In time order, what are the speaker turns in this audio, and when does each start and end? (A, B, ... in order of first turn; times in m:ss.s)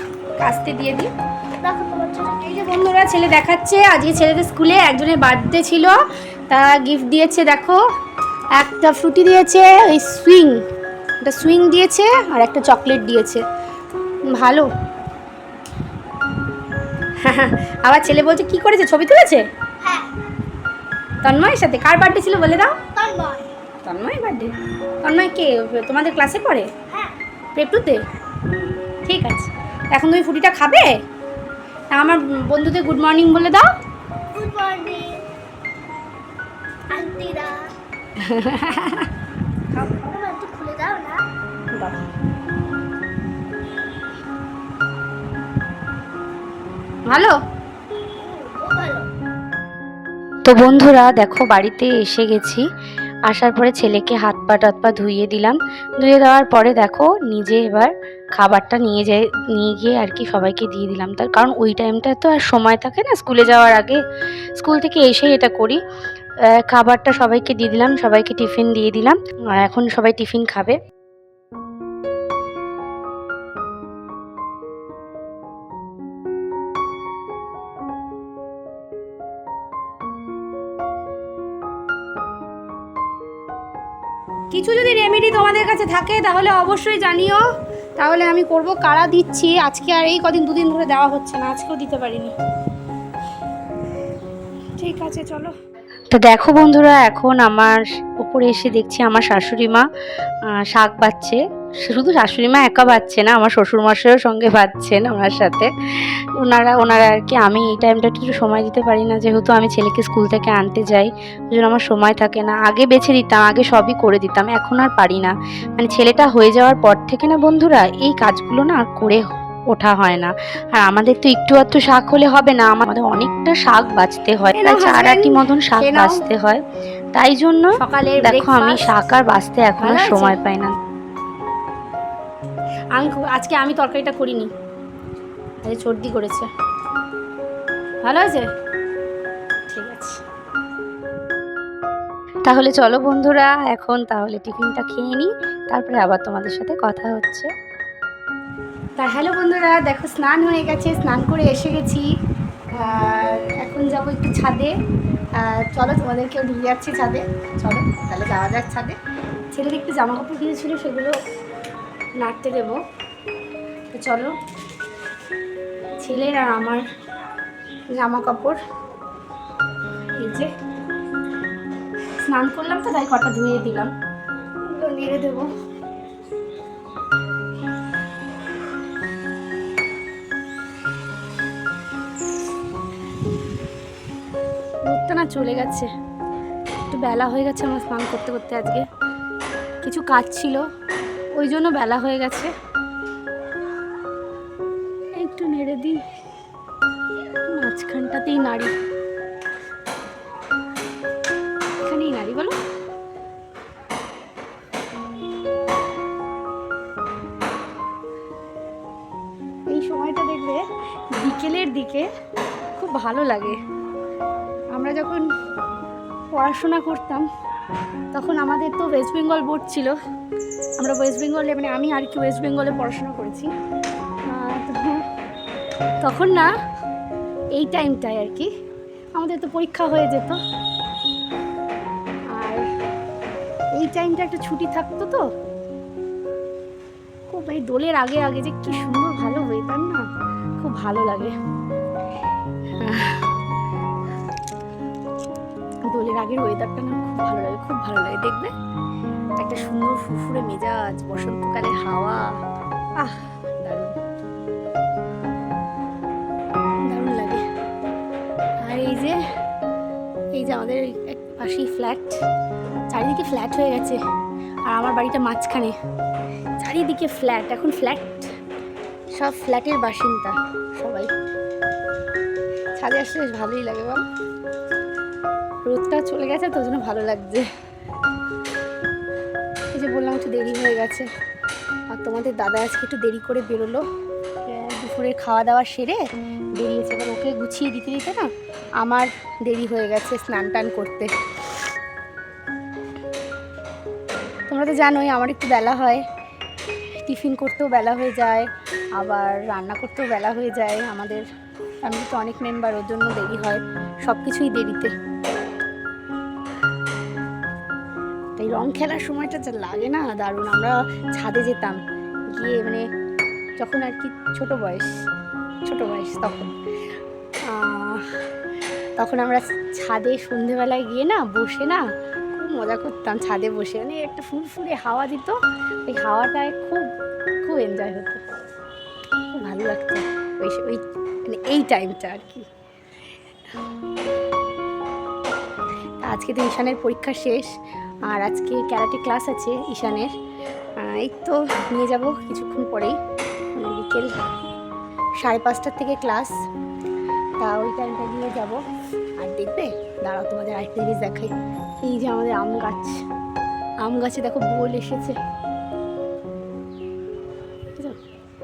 0:00.4-0:01.1 A
0:01.6-0:02.4 B
0:01.7-0:06.0 A
0:06.5-0:07.8 A
0:08.6-0:10.6 A
0:11.2-0:13.4 A
0:14.3-0:14.7 A
0:17.2-0:19.5 A
0:19.8-0:20.1 B
0:21.2-0:22.9 A
0:22.9-0:23.5 B
0:23.8-0:26.7 A
0:27.6-0:28.0 A
0:29.0-0:31.0 A
0:31.9-0:33.7 A
0:34.3-0:35.2 B
0:36.9-0:37.7 B
0:38.2-0:39.1 A
0:39.9-0:41.2 B
0:41.7-0:42.0 A
0:47.1-0:47.4 A
0:48.2-0:49.1 B
0:50.4-0:52.6 C
0:53.3-1:04.0 C
1:04.6-1:05.8 C
1:06.5-1:10.8 C
1:24.5-1:27.4 A
1:28.0-1:32.3 A
1:34.8-1:35.5 A
1:36.1-1:39.9 C
1:40.6-1:45.7 C
1:46.4-2:06.6 C
2:04.5-2:06.2 A
2:07.2-2:10.8 C
2:07.8-2:09.1 A
2:09.8-2:10.4 A
2:13.0-2:14.5 A
2:15.6-2:16.5 A
2:18.0-2:18.5 A
2:19.7-2:20.2 A
2:22.5-2:27.5 C
2:29.0-2:32.1 A
2:32.8-2:34.7 A
2:35.4-2:39.0 A
2:39.5-2:41.2 A
2:42.2-2:42.8 A
2:43.9-2:44.3 A
2:46.0-2:46.8 A
2:47.9-2:48.6 A
2:50.2-2:50.5 A
2:52.2-2:53.9 A
2:54.6-2:55.5 A
3:04.9-3:05.9 A
3:06.9-3:08.9 A
3:09.8-3:10.6 A
3:11.4-3:12.5 A
3:15.2-3:16.0 A
3:17.5-3:18.7 A
3:21.8-3:22.6 A
3:29.7-3:30.6 A
3:31.2-3:32.1 A
3:32.8-3:33.6 A
3:34.7-3:35.2 A
3:36.3-3:37.2 A
3:38.1-3:40.0 A
3:40.8-3:43.5 A
3:44.3-3:45.0 A
3:46.0-3:46.5 A
3:47.6-3:48.5 A
3:49.2-3:50.4 A
3:52.3-3:52.7 A
3:53.8-3:55.2 A
3:57.3-4:00.0 A
4:00.6-4:01.3 A
4:02.8-4:03.3 A
4:05.9-4:08.5 A
4:09.4-4:12.3 A
4:13.0-4:13.9 A
4:16.9-4:17.4 A
4:18.6-4:19.2 A
4:20.4-4:22.2 A
4:22.9-4:24.0 A
4:24.7-4:25.8 A
4:26.6-4:28.3 A
4:29.2-4:31.1 A
4:32.8-4:34.0 A
4:35.7-4:37.5 A
4:39.7-4:41.1 A
4:41.9-4:43.8 A
4:44.5-4:46.0 A
4:46.6-4:48.3 A
4:48.8-4:51.1 A
4:54.5-4:56.0 A
4:57.0-5:01.3 A
5:01.8-5:04.9 A
5:08.4-5:11.8 A
5:12.3-5:12.8 A
5:13.6-5:15.0 A
5:15.7-5:16.6 A
5:17.5-5:18.3 A
5:19.0-5:26.9 A
5:27.4-5:28.2 A
5:29.3-5:32.5 A
5:36.0-5:37.5 A
5:38.1-5:40.1 A
5:40.8-5:43.0 A
5:43.6-5:44.1 A
5:45.2-5:46.3 A
5:47.4-5:48.6 A
5:49.2-5:53.0 A
5:53.8-5:55.2 A